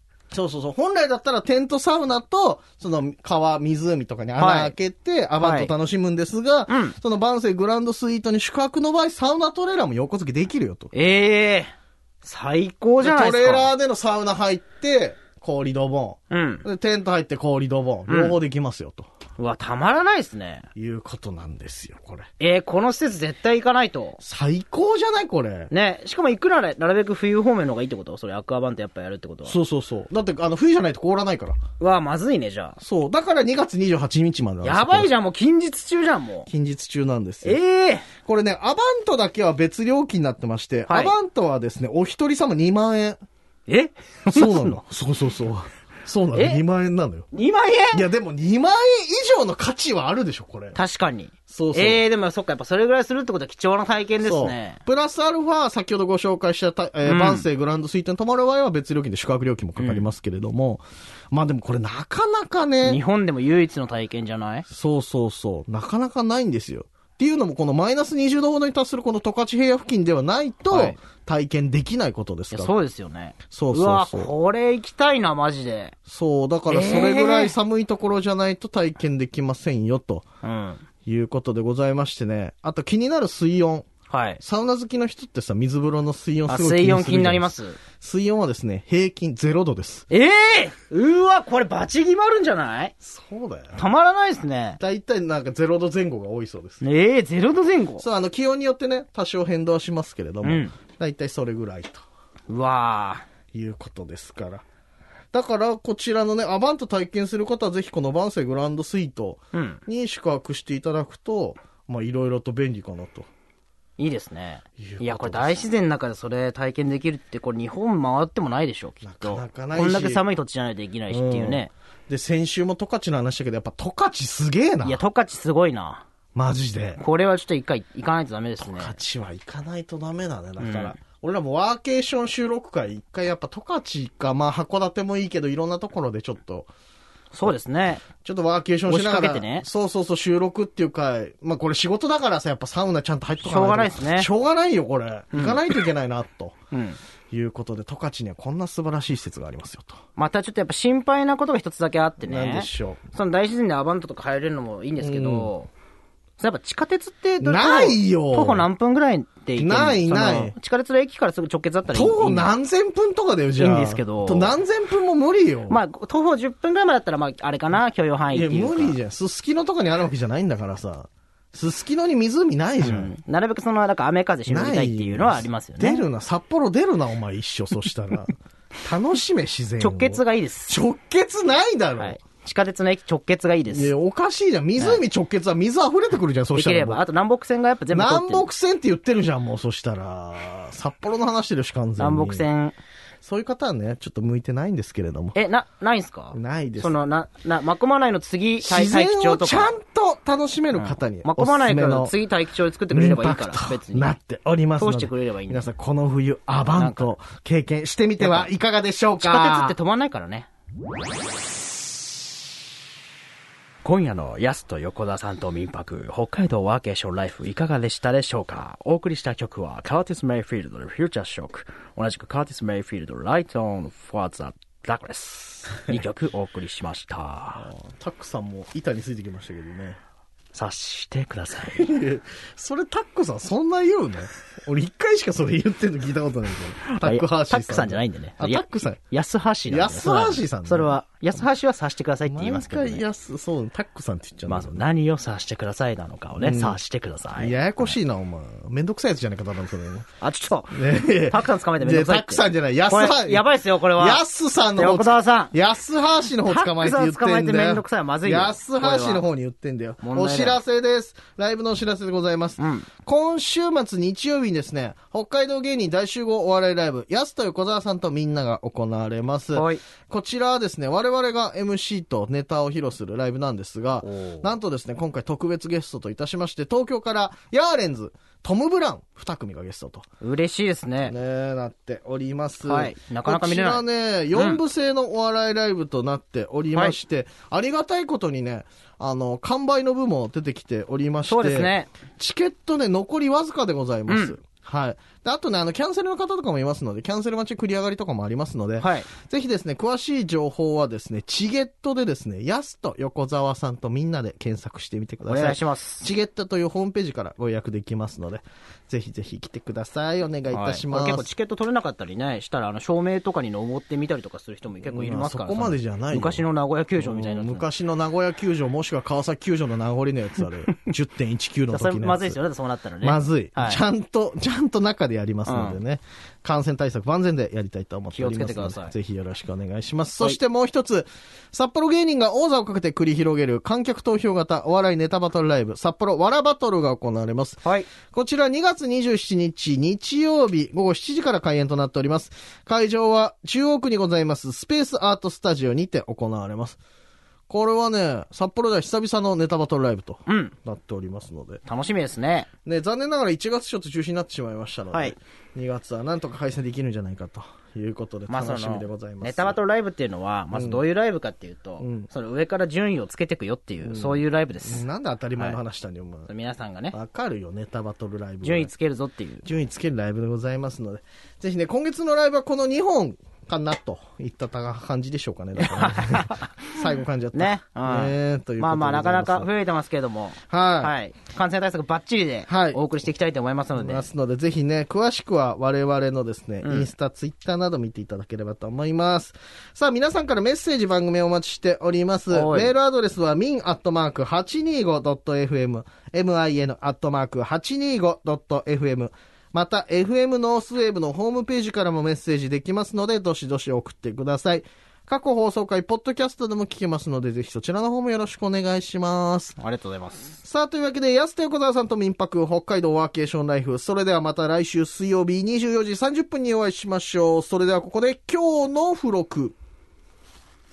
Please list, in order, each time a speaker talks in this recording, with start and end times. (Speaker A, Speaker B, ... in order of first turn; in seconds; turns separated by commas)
Speaker A: 0.3-10.9, Speaker B: 4.4-4.7, Speaker B: 5.4-5.7, Speaker B: 6.7-7.0, Speaker B: 10.9-11.7, Speaker B: 12.2-13.7, Speaker A: 13.0-19.1, Speaker B: 16.3-16.6, Speaker B: 18.1-18.4, Speaker B: 19.4-20.7, Speaker A: 20.8-22.3, Speaker B: 22.4-24.2, Speaker A: 24.2-25.7, Speaker B: 25.7-29.5, Speaker A: 29.5-31.6, Speaker B: 31.8-32.8, Speaker A: 32.8-35.1, Speaker B: 34.6-36.5, Speaker A: 36.5-37.6, Speaker B: 37.4-38.1, Speaker A: 38.2-43.2, Speaker B: 40.9-41.1, Speaker B: 43.7-44.8, Speaker A: 44.3-47.3, Speaker B: 46.3-46.6, Speaker B: 47.3-48.0, Speaker A: 47.9-50.8, Speaker B: 50.7-54.8, Speaker A: 51.5-52.0, Speaker A: 54.2-63.0, Speaker B: 57.0-57.5, Speaker B: 59.8-60.1, Speaker B: 62.8-64.7, Speaker A: 64.7-72.7, Speaker B: 70.7-71.0, Speaker B: 72.5-76.0, Speaker A: 73.5-74.3, Speaker A: 76.1-80.2, Speaker B: 76.7-77.5, Speaker B: 80.4-80.8, Speaker A: 81.1-83.9, Speaker B: 84.1-84.4, Speaker A: 84.4-90.1, Speaker B: 86.5-87.8, Speaker B: 90.1-92.9, Speaker A: 93.0-93.8, Speaker B: 93.8-94.8, Speaker A: 94.8-96.8, Speaker B: 96.8-98.0, Speaker A: 98.0-102.0, Speaker B: 100.4-100.7, Speaker B: 102.5-103.2, Speaker A: 103.5-104.6, Speaker A: 105.3-113.3, Speaker B: 109.5-109.8, Speaker B: 114.0-121.7, Speaker A: 114.8-115.7, Speaker A: 119.0-120.2, Speaker A: 121.1-125.0, Speaker B: 124.8-126.0, Speaker A: 126.3-127.0, Speaker B: 127.0-129.0, Speaker A: 128.6-136.7, Speaker B: 130.6-131.0, Speaker B: 137.3-138.0, Speaker A: 138.2-146.6, Speaker B: 138.9-139.7, Speaker B: 143.4-144.3, Speaker B: 145.3-145.7, Speaker B: 146.7-147.0, Speaker A: 147.3-150.0, Speaker B: 150.2-155.7, Speaker A: 152.2-153.0, Speaker A: 155.0-155.5, Speaker B: 156.4-162.5, Speaker A: 157.4-158.7, Speaker A: 159.6-160.6, Speaker A: 161.9-165.8, Speaker B: 163.6-164.6, Speaker B: 165.7-169.0, Speaker A: 168.3-173.1, Speaker B: 172.8-176.1, Speaker A: 174.5-182.2, Speaker B: 179.8-180.8, Speaker B: 182.0-183.9, Speaker A: 183.7-187.0, Speaker B: 186.5-188.5, Speaker A: 187.9-192.5, Speaker B: 192.0-192.8, Speaker A: 193.2-195.4, Speaker B: 195.3-199.7, Speaker A: 196.3-197.0, Speaker A: 198.6-202.1, Speaker B: 200.8-204.1, Speaker A: 202.9-209.8, Speaker B: 204.8-205.7, Speaker B: 206.7-207.1, Speaker B: 208.2-208.5, Speaker B: 209.2-210.5, Speaker B: 213.8-227.7, Speaker A: 227.6-230.0, Speaker B: 230.5-231.8, Speaker A: 231.6-239.0, Speaker B: 236.9-243.1, Speaker A: 239.7-241.0, Speaker A: 242.3-244.8, Speaker B: 244.5-248.0, Speaker A: 246.4-246.8, Speaker A: 247.4-250.1, Speaker B: 250.2-254.2, Speaker A: 250.7-280.1, Speaker B: 254.8-255.5, Speaker B: 256.4-259.2, Speaker B: 260.0-260.6, Speaker B: 262.6-262.9, Speaker B: 269.6-269.8, Speaker B: 274.0-274.5, Speaker B: 280.2-281.1, Speaker A: 281.0-311.3, Speaker B: 282.6-284.6, Speaker B: 291.3-291.9, Speaker B: 294.1-294.4, Speaker B: 298.8-299.1, Speaker B: 305.3-306.1, Speaker B: 310.5-317.7, Speaker A: 314.9-316.5, Speaker A: 317.0-322.4, Speaker B: 321.7-323.8, Speaker A: 323.0-346.8, Speaker B: 325.5-325.8, Speaker B: 328.1-328.9, Speaker B: 337.6-337.9, Speaker A: 347.5-351.6, Speaker B: 350.3-350.5, Speaker B: 351.7-352.5, Speaker A: 352.6-359.6, Speaker B: 358.3-364.9, Speaker A: 360.5-360.8, Speaker A: 361.8-362.1, Speaker A: 363.8-366.3, Speaker B: 366.3-366.9, Speaker A: 366.9-368.7, Speaker B: 368.4-369.4, Speaker A: 369.4-379.5, Speaker B: 375.6-376.5, Speaker B: 377.3-384.1, Speaker A: 380.5-380.9, Speaker A: 382.5-382.8, Speaker A: 383.8-409.6, Speaker B: 386.6-386.9, Speaker B: 392.3-392.7, Speaker B: 409.6-410.4, Speaker A: 410.4-419.6